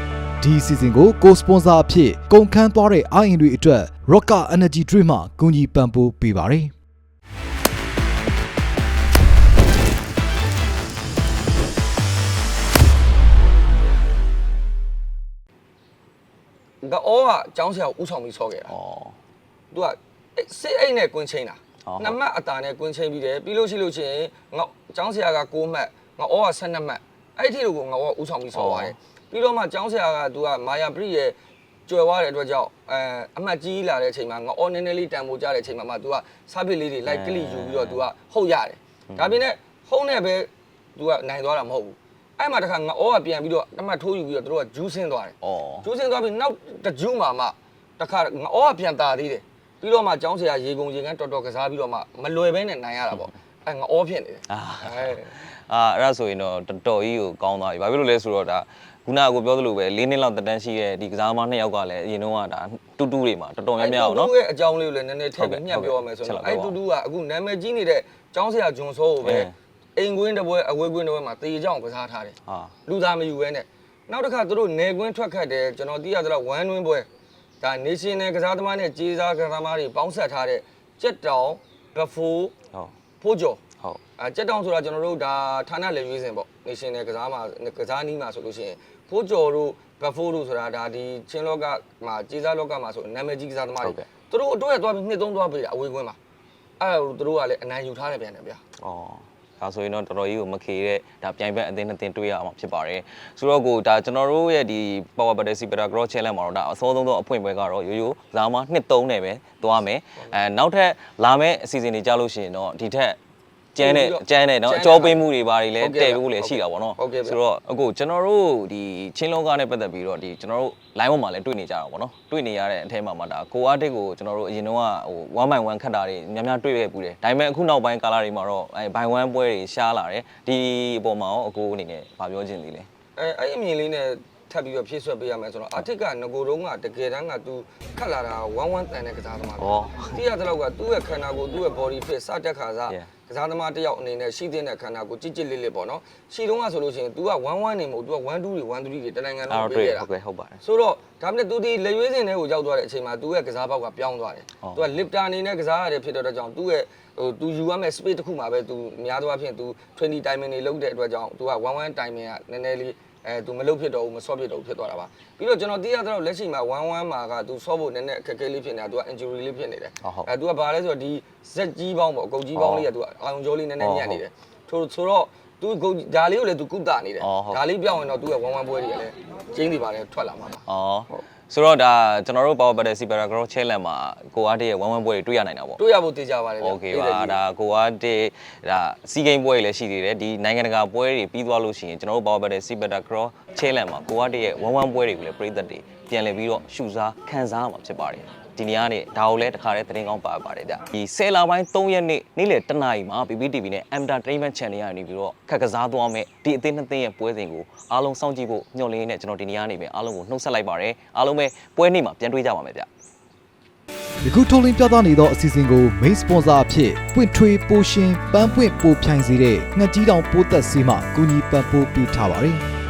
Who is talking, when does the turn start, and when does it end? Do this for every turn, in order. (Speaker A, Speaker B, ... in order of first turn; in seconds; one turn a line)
Speaker A: 0.4-6.7
Speaker B: 16.8-18.7
Speaker C: 18.7-19.2
Speaker B: 19.7-31.4
Speaker C: 21.9-22.2
Speaker C: 28.5-28.9
Speaker B: 31.9-55.4
Speaker C: 37.1-38.1
Speaker C: 39.1-39.4
Speaker C: 45.4-45.9
Speaker C: 54.5-64.3
Speaker B: 63.8-72.3
Speaker C: 65.4-66.8
Speaker C: 69.2-69.5
Speaker C: 72.5-72.7
Speaker B: 72.9-77.1
Speaker B: 77.6-82.5
Speaker B: 83.2-83.6
Speaker B: 84.2-96.2
Speaker C: 93.8-94.1
Speaker B: 96.8-98.6
Speaker C: 98.8-113.2
Speaker C: 113.8-132.9
Speaker B: 113.8-115.2
Speaker B: 115.8-117.4
Speaker B: 133.2-150.1
Speaker C: 139.6-140.2
Speaker C: 149.5-150.6
Speaker B: 150.6-181.2
Speaker C: 154.6-154.9
Speaker C: 170.0-170.3
Speaker C: 172.6-172.9
Speaker C: 173.8-174.2
Speaker C: 177.2-177.6
Speaker C: 180.7-185.8
Speaker B: 185.8-187.4
Speaker C: 186.6-212.9
Speaker A: 214.2-222.7